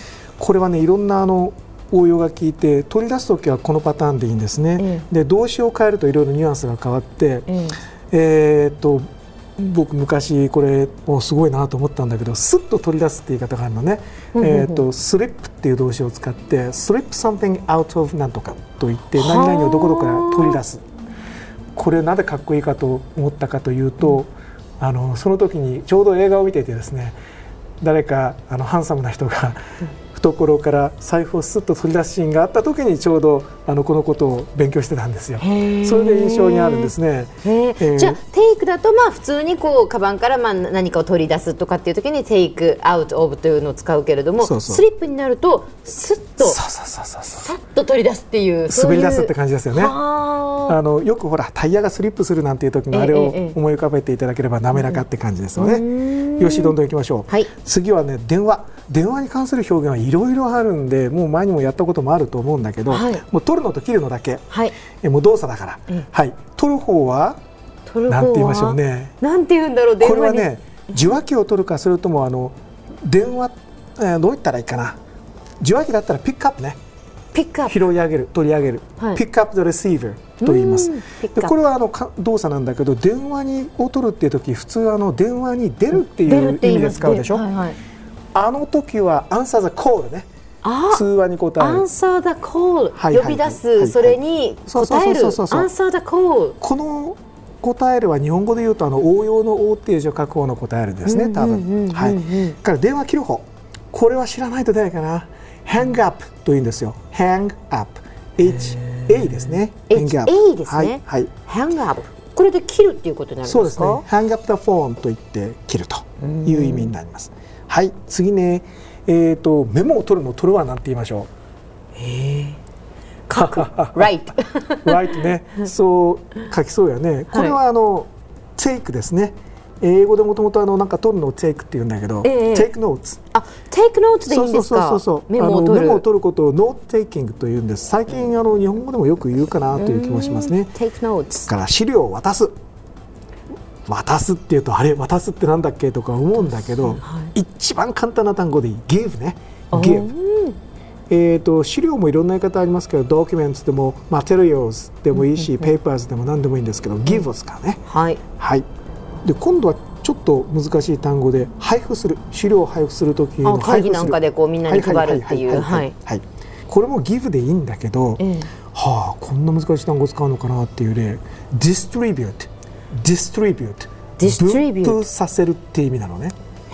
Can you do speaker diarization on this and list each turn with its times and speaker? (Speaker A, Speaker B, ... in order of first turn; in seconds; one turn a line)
Speaker A: 0.4-7.5
Speaker B: 4.8-5.1
Speaker B: 7.5-7.8
Speaker A: 8.1-20.8
Speaker B: 14.4-14.8
Speaker B: 19.2-20.6
Speaker A: 21.8-27.2
Speaker A: 27.8-29.6
Speaker A: 30.1-38.2
Speaker B: 35.4-36.9
Speaker B: 37.4-46.6
Speaker A: 44.4-44.8
Speaker A: 46.4-47.5
Speaker B: 47.4-50.8
Speaker A: 48.7-50.0
Speaker A: 50.7-64.5
Speaker B: 52.9-53.6
Speaker B: 54.7-55.0
Speaker B: 55.6-56.8
Speaker B: 62.9-63.2
Speaker B: 64.5-64.8
Speaker A: 65.0-67.4
Speaker B: 67.9-71.0
Speaker A: 68.1-69.1
Speaker A: 70.0-75.0
Speaker A: 75.6-76.8
Speaker B: 77.3-77.8
Speaker A: 77.7-87.5
Speaker B: 80.4-81.5
Speaker B: 86.1-87.8
Speaker A: 88.3-90.3
Speaker B: 90.6-91.0
Speaker A: 90.9-91.9
Speaker B: 91.6-96.6
Speaker A: 93.0-95.7
Speaker A: 96.6-111.3
Speaker B: 101.0-102.6
Speaker B: 109.9-114.0
Speaker A: 113.5-121.3
Speaker B: 116.2-116.9
Speaker B: 122.0-122.6
Speaker B: 123.3-125.2
Speaker A: 123.3-133.2
Speaker B: 127.3-127.6
Speaker B: 132.2-132.7
Speaker B: 133.3-136.0
Speaker A: 134.3-140.7
Speaker B: 139.8-141.5
Speaker A: 141.5-142.5
Speaker A: 143.9-150.1
Speaker B: 146.4-147.3
Speaker B: 149.7-150.6
Speaker A: 151.1-157.8
Speaker B: 155.1-155.7
Speaker B: 157.9-158.2
Speaker A: 158.4-158.7
Speaker A: 159.2-176.4
Speaker B: 163.4-165.9
Speaker B: 168.2-168.5
Speaker B: 174.2-175.1